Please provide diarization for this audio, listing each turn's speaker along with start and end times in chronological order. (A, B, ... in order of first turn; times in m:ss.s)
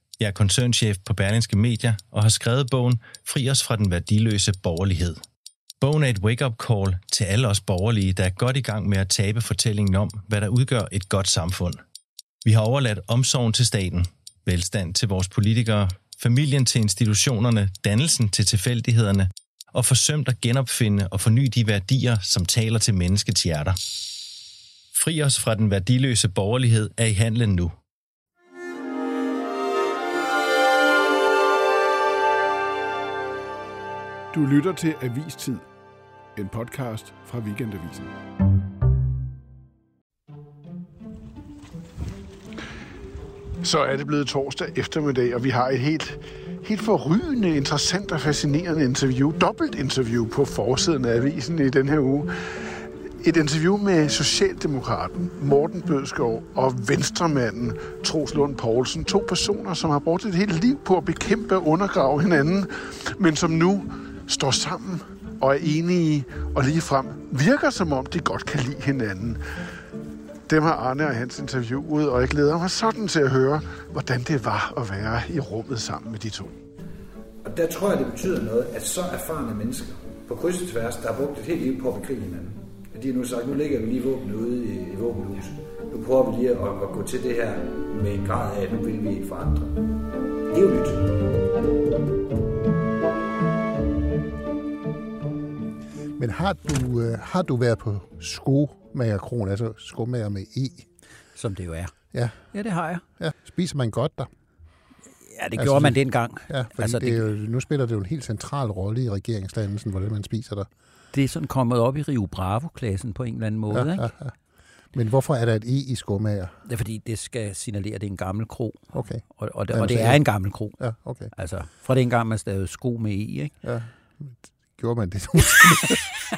0:00.2-0:05.2 A
0:05.8-0:11.8 A
0:12.4-0:23.8 A
0:24.9-0:27.7 A
0:34.3-0:35.6 B
0:36.3-0:38.1 B
0:43.6-1:09.4 B
1:10.5-1:16.5 B
1:17.4-1:29.8 C
1:30.5-1:31.1 C
1:36.2-1:40.9 D
1:41.4-1:41.9 E
1:42.1-1:42.4 D
1:42.5-1:43.0 E
1:43.2-1:44.3 D
1:45.3-1:47.2 E
1:45.6-1:50.7 D
1:51.1-1:54.1 E
1:53.7-1:54.3 D
1:54.9-1:56.6 D
1:56.6-1:58.8 E
1:58.9-2:00.2 D
1:59.3-2:00.8 E
2:00.8-2:01.3 D
2:01.3-2:03.5 E
2:03.6-2:06.0 D